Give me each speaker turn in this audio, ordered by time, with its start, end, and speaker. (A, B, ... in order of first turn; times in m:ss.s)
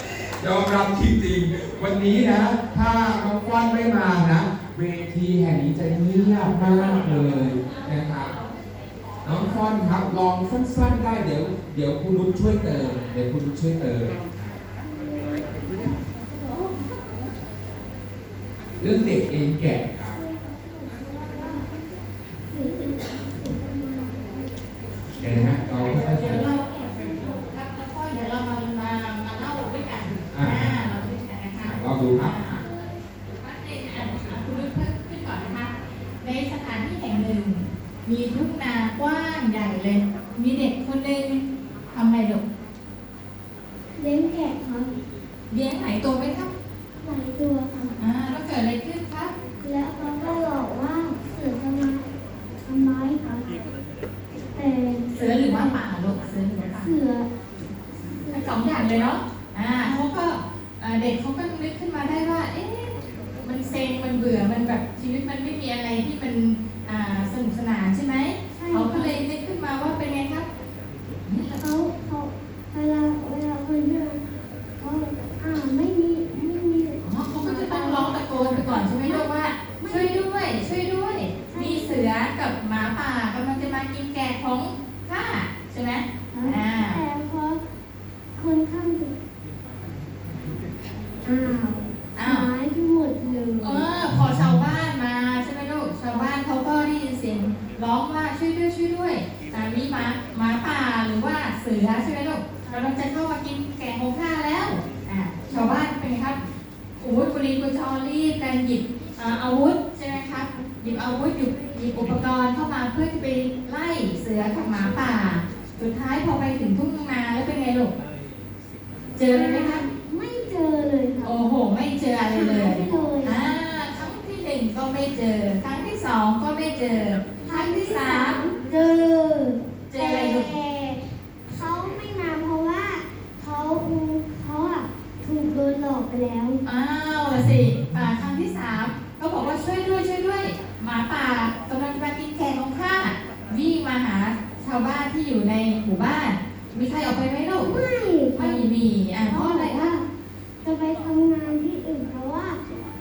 0:00.4-0:08.3 A
0:09.2-0:14.2 A
0:14.8-0:17.2 B
0:18.8-0:20.2 A
0:20.1-0:21.7 B
0:22.4-0:24.5 B
0:25.1-0:27.2 B
0:25.2-0:26.5 A
0:25.7-0:32.6 C
0:30.3-0:30.8 A
0:31.6-0:32.6 A
0:32.6-0:33.0 B
0:33.4-0:42.4 C
0:44.0-0:44.9 B
0:45.5-0:46.5 C
0:47.0-0:48.0 B
0:48.0-0:49.3 C
0:49.6-0:52.0 B
0:52.6-0:53.5 B
0:54.5-0:55.8 B
0:55.1-0:56.9 C
0:56.7-0:57.3 B
0:58.0-0:58.5 B
0:58.3-1:10.4 C
1:08.5-1:09.2 B
1:11.2-1:11.6 C
1:11.6-1:14.2 B
1:14.8-1:20.2 B
1:17.0-1:27.0 C
1:21.5-1:22.1 B
1:26.3-1:27.6 B
1:28.4-1:29.1 B
1:31.2-1:33.9 B
1:32.2-1:32.5 C
1:33.6-1:46.4 C
1:45.5-1:45.8 B
1:47.0-1:57.9 C
1:51.5-1:52.1 B
1:59.2-1:59.8 C
1:59.3-2:01.4 B
2:01.2-2:08.4 C
2:02.3-2:03.6 B
2:07.4-2:16.6 B
2:09.9-2:10.5 C
2:16.6-2:27.8 C
2:27.6-2:28.7 B
2:28.3-2:30.0 C
2:29.3-2:30.0 B
2:30.6-2:32.6 B